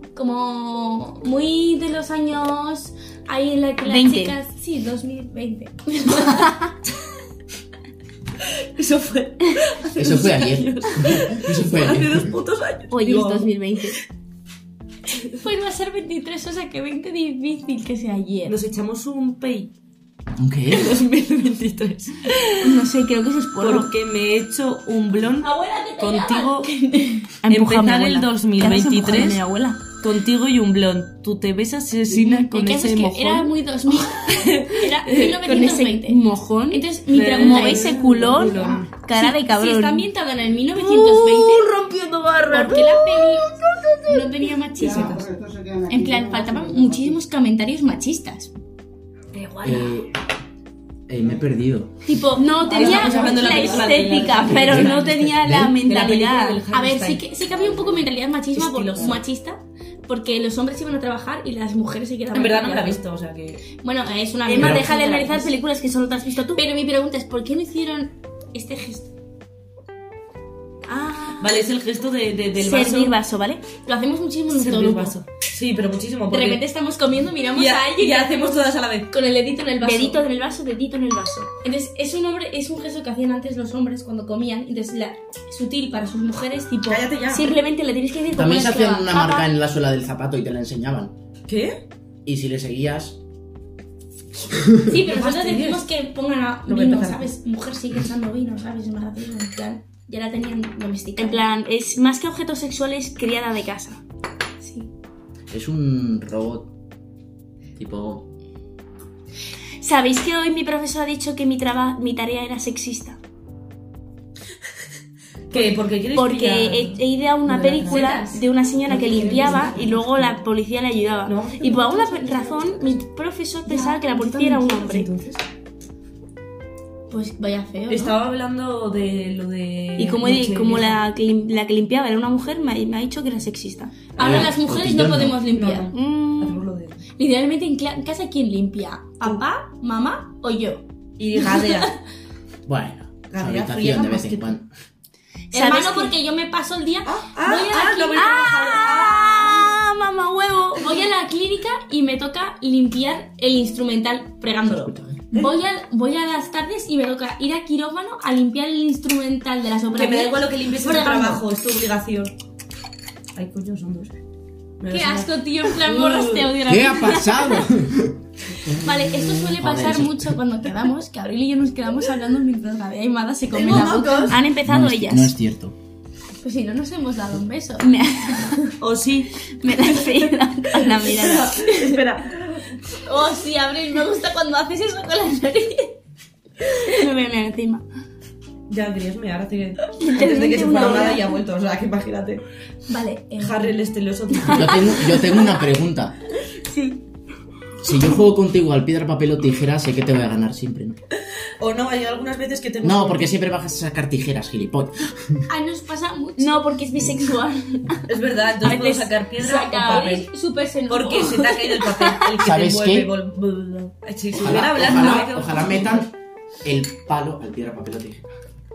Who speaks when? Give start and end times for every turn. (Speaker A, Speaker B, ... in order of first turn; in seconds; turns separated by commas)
Speaker A: 0.1-6.7, Speaker B: 3.8-4.3, Speaker C: 8.8-13.5, Speaker D: 9.9-12.3, Speaker B: 12.9-13.9, Speaker A: 15.3-18.5, Speaker C: 18.4-19.7, Speaker D: 20.4-21.0, Speaker C: 20.7-22.9, Speaker B: 22.6-23.9, Speaker C: 23.6-26.7, Speaker A: 25.4-27.4, Speaker B: 27.4-29.8, Speaker C: 27.5-29.4, Speaker C: 29.9-35.8, Speaker A: 32.1-41.7, Speaker B: 35.4-40.1, Speaker C: 37.1-38.9, Speaker E: 37.8-38.9, Speaker B: 40.8-43.0, Speaker C: 41.6-42.6, Speaker A: 42.5-45.2, Speaker E: 44.8-47.2, Speaker C: 44.8-45.2, Speaker A: 45.9-48.5, Speaker C: 49.3-49.9, Speaker D: 49.6-50.1, Speaker D: 51.1-51.9, Speaker A: 52.0-55.1, Speaker B: 52.4-56.6, Speaker C: 52.6-57.3, Speaker D: 54.4-55.8, Speaker A: 56.7-63.0, Speaker C: 58.5-59.2, Speaker C: 62.3-63.6, Speaker A: 63.8-65.5, Speaker B: 64.4-66.6, Speaker D: 64.6-64.9, Speaker A: 66.5-69.1, Speaker B: 70.9-71.6, Speaker C: 71.4-73.1, Speaker B: 72.6-73.7, Speaker A: 73.8-75.2, Speaker C: 74.5-76.6, Speaker A: 76.3-78.6, Speaker C: 77.5-79.1, Speaker A: 79.1-80.2, Speaker B: 79.8-81.5, Speaker A: 81.6-87.0, Speaker C: 86.9-87.5, Speaker B: 87.3-89.5, Speaker D: 88.3-91.1, Speaker C: 91.5-91.8, Speaker D: 92.2-93.2, Speaker A: 94.8-101.4, Speaker C: 95.0-95.8, Speaker C: 96.7-97.3, Speaker B: 101.2-104.0, Speaker A: 104.6-104.9, Speaker D: 105.5-106.7, Speaker D: 107.8-108.2, Speaker B: 109.8-113.2, Speaker C: 115.5-118.3, Speaker B: 116.1-125.1, Speaker A: 117.8-119.9, Speaker C: 118.9-120.4, Speaker C: 121.2-123.0, Speaker A: 123.7-124.0, Speaker C: 123.7-125.4, Speaker A: 127.1-128.2, Speaker C: 127.9-131.0, Speaker B: 130.0-134.1, Speaker A: 134.2-135.9, Speaker D: 134.2-135.4, Speaker C: 134.2-134.5, Speaker C: 135.5-137.0, Speaker B: 135.9-136.6, Speaker A: 137.2-140.8, Speaker C: 141.2-142.0, Speaker A: 141.3-141.9, Speaker D: 142.7-144.7, Speaker C: 143.3-144.5, Speaker A: 145.5-148.6, Speaker B: 145.5-146.1, Speaker C: 147.0-149.7, Speaker B: 148.1-151.0, Speaker A: 150.8-161.4, Speaker D: 154.7-155.2, Speaker C: 159.9-162.3, Speaker C: 163.3-164.1, Speaker C: 164.8-166.6, Speaker A: 164.9-167.7, Speaker D: 166.7-170.4, Speaker A: 168.8-174.4, Speaker C: 173.5-174.4, Speaker B: 173.7-175.3, Speaker D: 174.6-175.7, Speaker A: 176.4-178.6, Speaker B: 177.8-178.6, Speaker C: 178.8-179.3, Speaker B: 179.5-181.6, Speaker A: 179.8-180.3, Speaker C: 181.0-182.6, Speaker A: 181.0-182.0, Speaker A: 182.9-185.9, Speaker B: 186.8-187.8, Speaker C: 188.7-192.4, Speaker B: 190.0-191.2, Speaker A: 190.2-191.3, Speaker A: 192.9-193.8, Speaker C: 193.4-195.2, Speaker A: 194.3-195.4, Speaker D: 194.5-196.2, Speaker B: 196.7-197.0, Speaker D: 197.8-201.0, Speaker C: 201.6-203.3, Speaker D: 202.8-205.4, Speaker A: 205.5-206.6, Speaker B: 206.4-208.1, Speaker C: 208.1-210.3, Speaker B: 208.6-209.1, Speaker A: 209.4-212.0, Speaker C: 210.9-216.1, Speaker D: 212.4-213.1, Speaker D: 214.3-216.1, Speaker D: 216.6-218.2